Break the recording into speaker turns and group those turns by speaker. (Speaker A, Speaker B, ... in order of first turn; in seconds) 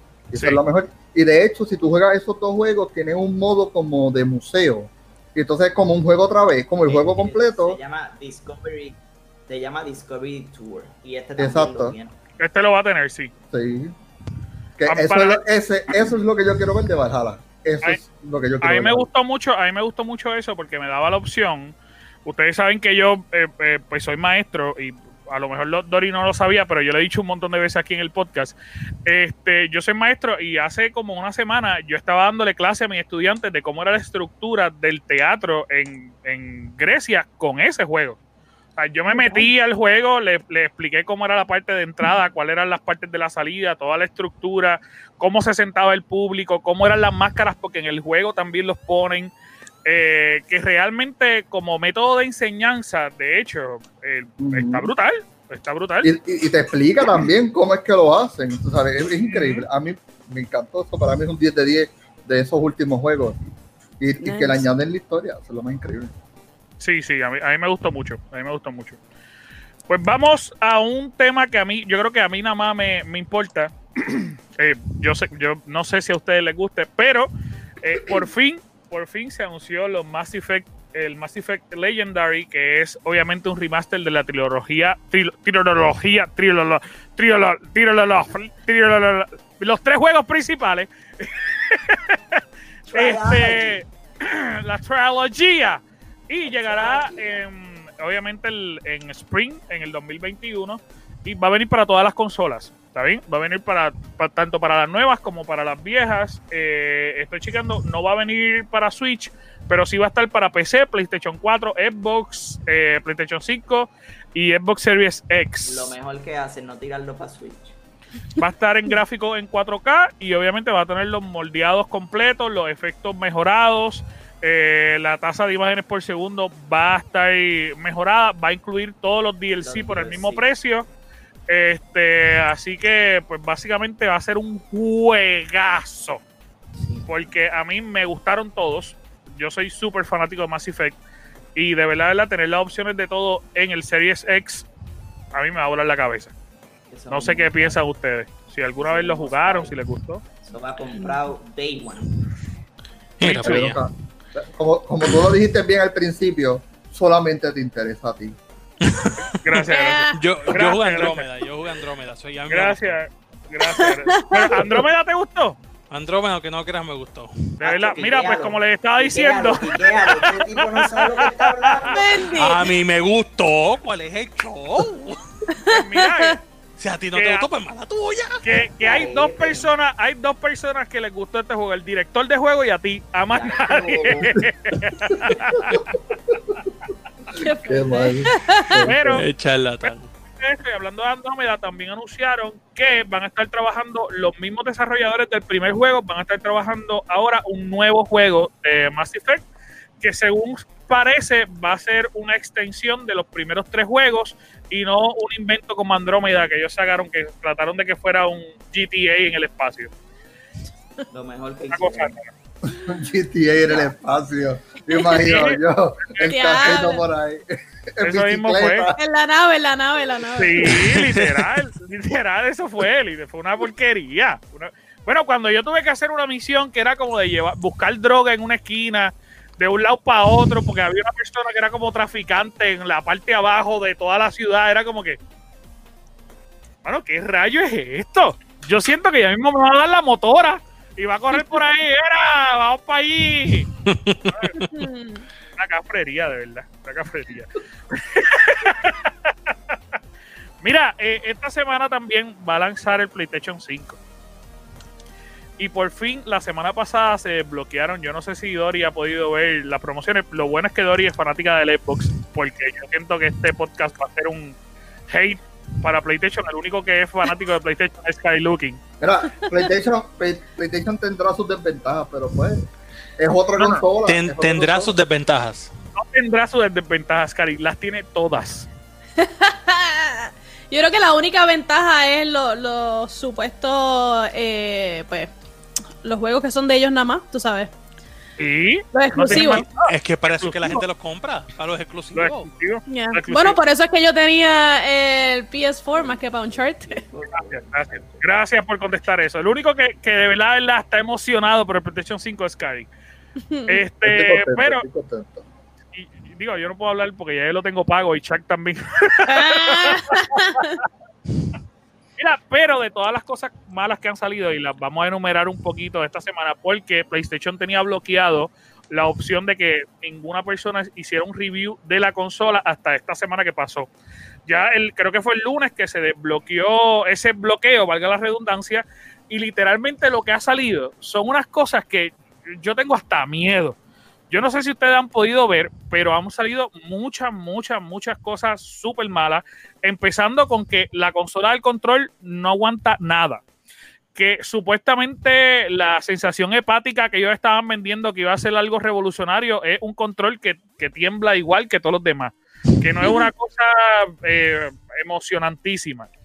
Speaker A: 0.3-7.8, 11.4-12.0, 13.5-13.9, 14.8-19.1, 54.4-54.9, 56.0-63.4, 64.0-66.1, 153.2-158.4, 185.1-185.8, 187.7-189.2, 212.7-219.0, 269.0-275.0, 304.0-305.5
Speaker B: 0.4-0.6, 12.4-13.3, 14.9-15.4, 18.6-38.2, 38.8-49.3, 49.9-56.1, 59.1-59.7, 66.8-69.0, 69.9-77.3, 77.8-115.9, 118.4-130.9, 131.5-136.2, 137.1-141.0, 141.6-144.7, 145.3-146.3, 147.1-150.2, 153.2-153.7, 159.4-161.3, 162.5-165.6, 167.6-172.0, 175.7-176.4, 177.2-177.5, 178.4-185.8, 188.8-189.3, 189.8-199.4, 200.0-209.9, 211.7-212.2, 215.2-215.6, 218.0-218.9, 220.4-235.2, 236.8-243.7, 244.3-244.6, 245.6-249.8, 250.6-254.0, 255.6-264.6, 265.1-268.8, 273.6-273.8, 276.0-278.7, 288.4-289.7, 290.2-290.8, 292.1-293.6, 297.3-302.9, 303.7-304.8, 305.9-310.8, 312.2-323.9, 324.5-333.8, 334.3-343.4, 344.1-356.1
Speaker C: 6.8-12.2, 92.9-93.8, 96.5-97.4, 115.7-117.8, 129.6-130.5, 136.8-137.1, 146.9-147.8, 148.8-149.8, 150.4-152.2, 167.6-172.3, 178.8-179.7, 183.3-184.4, 185.3-185.6, 211.1-212.2, 213.7-213.9, 295.9-298.2
Speaker D: 39.1-39.5, 64.2-64.7, 159.7-160.2, 163.6-164.8, 171.9-172.7, 175.5-176.4, 187.3-188.8, 216.2-217.0, 219.0-220.8, 244.6-245.3, 279.2-285.3, 286.0-287.7, 288.9-289.9, 292.9-297.0, 303.5-303.8, 309.3-310.8, 353.0-353.3
Speaker E: 153.2-153.8, 158.8-163.0, 165.9-167.6, 172.4-175.2, 176.8-178.4, 189.1-190.1, 220.7-221.5, 243.8-244.8, 274.1-275.7, 289.3-292.5